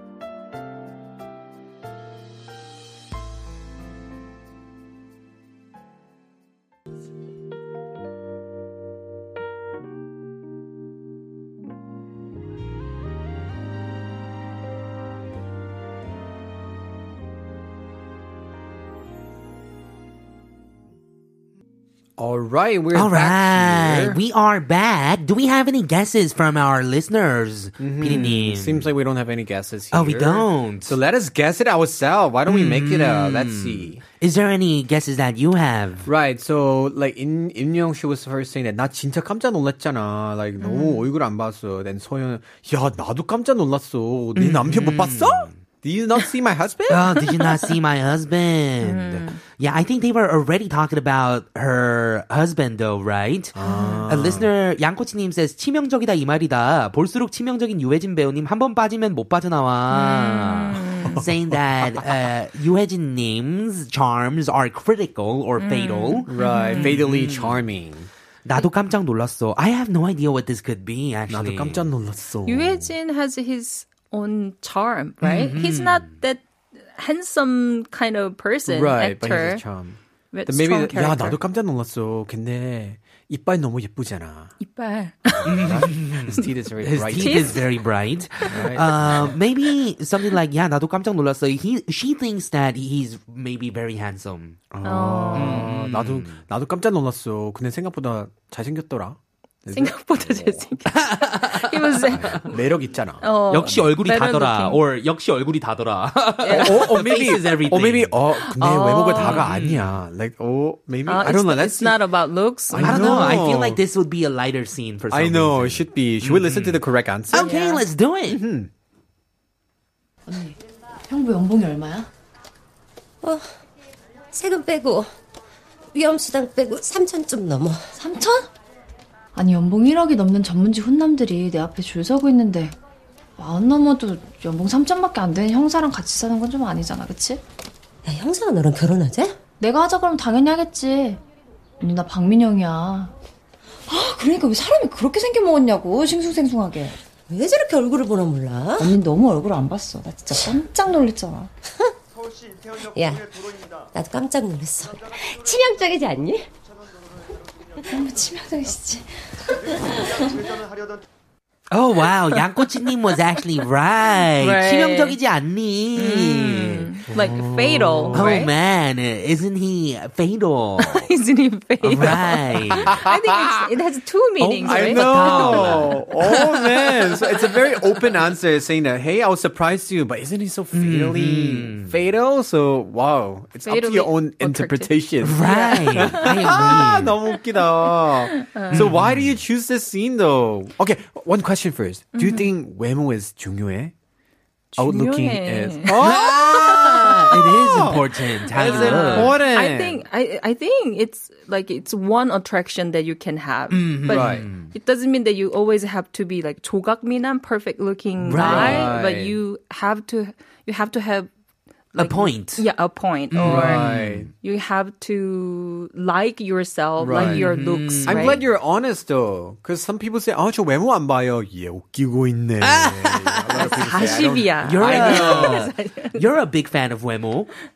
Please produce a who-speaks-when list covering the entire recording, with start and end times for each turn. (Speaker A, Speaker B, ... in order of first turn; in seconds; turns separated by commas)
Speaker A: 22.2-24.2, Speaker B: 22.9-28.9, Speaker A: 27.8-34.0, Speaker B: 29.9-31.0, Speaker B: 32.5-36.1, Speaker A: 36.0-47.2, Speaker C: 40.6-41.0, Speaker B: 44.4-45.5, Speaker B: 46.9-53.6, Speaker C: 48.8-49.4, Speaker A: 53.5-54.5, Speaker C: 53.6-54.0, Speaker B: 54.1-67.6, Speaker C: 59.9-61.2, Speaker A: 61.0-62.1, Speaker C: 65.6-66.9, Speaker A: 66.3-68.1, Speaker B: 68.5-71.9, Speaker A: 71.3-72.9, Speaker C: 72.5-76.4, Speaker B: 75.2-76.1, Speaker C: 77.0-79.6, Speaker A: 78.7-84.5, Speaker C: 80.3-81.4, Speaker C: 84.6-86.4, Speaker A: 85.4-87.6, Speaker B: 85.5-94.6, Speaker C: 87.2-87.6, Speaker A: 88.5-89.4, Speaker A: 94.7-100.7, Speaker C: 94.8-95.7, Speaker B: 95.3-96.4, Speaker C: 99.7-102.6, Speaker B: 100.9-102.4, Speaker A: 102.2-103.3, Speaker C: 103.2-104.8, Speaker B: 103.5-108.2, Speaker C: 106.4-106.9, Speaker A: 106.5-112.0, Speaker C: 108.4-109.4, Speaker B: 109.2-110.0, Speaker C: 111.1-113.3, Speaker A: 112.7-113.8, Speaker B: 112.8-118.4, Speaker A: 115.1-117.6, Speaker C: 117.3-117.8, Speaker A: 118.3-118.7, Speaker D: 120.3-120.6, Speaker D: 121.1-122.1, Speaker E: 123.2-123.5, Speaker E: 124.3-125.1, Speaker E: 125.9-127.9, Speaker D: 128.0-128.5, Speaker D: 129.3-132.8, Speaker D: 133.4-137.4, Speaker E: 138.1-139.4, Speaker D: 139.6-141.2, Speaker D: 141.8-143.1, Speaker D: 143.9-147.0, Speaker E: 147.3-148.9, Speaker D: 148.8-151.5, Speaker E: 152.7-156.5, Speaker D: 157.9-160.4, Speaker B: 161.7-166.9, Speaker C: 162.3-162.9, Speaker C: 164.4-165.2, Speaker C: 166.0-168.5, Speaker A: 167.1-168.5, Speaker B: 168.1-171.1, Speaker C: 170.8-176.0, Speaker B: 171.8-172.9, Speaker A: 172.7-173.7, Speaker B: 174.4-177.2, Speaker A: 174.6-193.9, Speaker B: 180.7-181.9, Speaker C: 183.7-186.7, Speaker B: 185.2-187.2, Speaker C: 187.8-188.9, Speaker B: 188.7-189.3, Speaker C: 192.1-192.5, Speaker C: 194.7-196.0, Speaker A: 194.8-200.0, Speaker B: 196.0-199.4, Speaker C: 198.5-211.3, Speaker B: 203.7-204.7, Speaker A: 204.1-204.5, Speaker B: 208.2-208.9, Speaker A: 208.3-209.4, Speaker C: 211.9-218.4, Speaker B: 212.0-212.6, Speaker B: 213.3-214.3, Speaker A: 213.4-214.3, Speaker A: 217.0-217.5, Speaker B: 217.1-218.4, Speaker A: 218.0-225.7, Speaker B: 222.6-223.7, Speaker C: 223.6-226.2, Speaker B: 224.6-227.5